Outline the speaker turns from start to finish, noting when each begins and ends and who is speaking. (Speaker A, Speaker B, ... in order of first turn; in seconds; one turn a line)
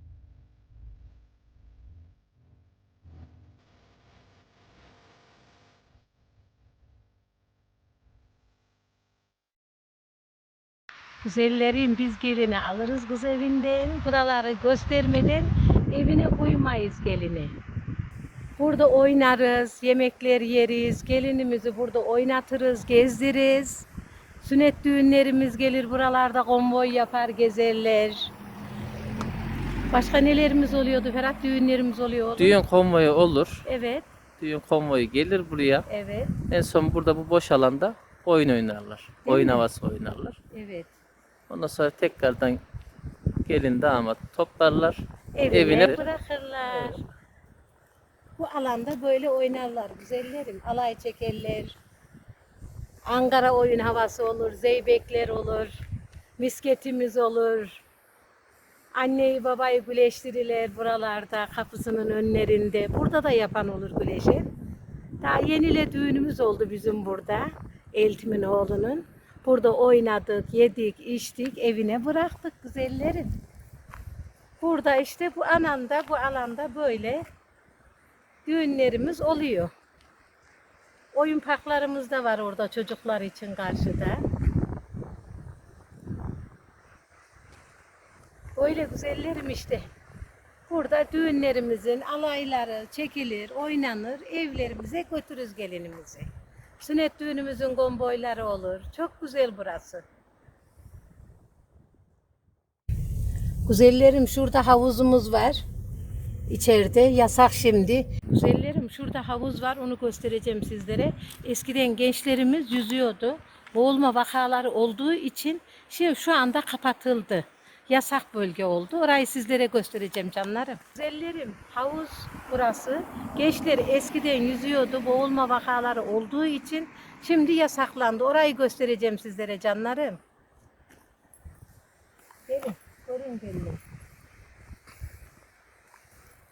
Speaker A: 11.2-17.6
Speaker A: 18.6-23.9
Speaker A: 24.4-28.3
Speaker A: 29.9-32.6
Speaker B: 32.4-33.6
Speaker A: 33.6-34.0
Speaker B: 34.4-35.8
Speaker A: 35.9-36.4
Speaker B: 36.4-40.4
Speaker A: 39.2-39.6
Speaker A: 40.5-40.9
Speaker B: 41.5-42.6
Speaker B: 43.4-47.0
Speaker A: 45.3-47.0
Speaker A: 48.4-51.8
Speaker A: 53.1-55.7
Speaker A: 56.4-57.8
Speaker A: 58.9-64.5
Speaker A: 65.2-73.3
Speaker A: 74.6-77.2
Speaker A: 78.4-79.7
Speaker A: 81.1-84.2
Speaker A: 88.5-89.9
Speaker A: 90.7-100.0
Speaker A: 103.6-105.6
Speaker A: 106.5-130.2
Speaker A: 132.5-133.8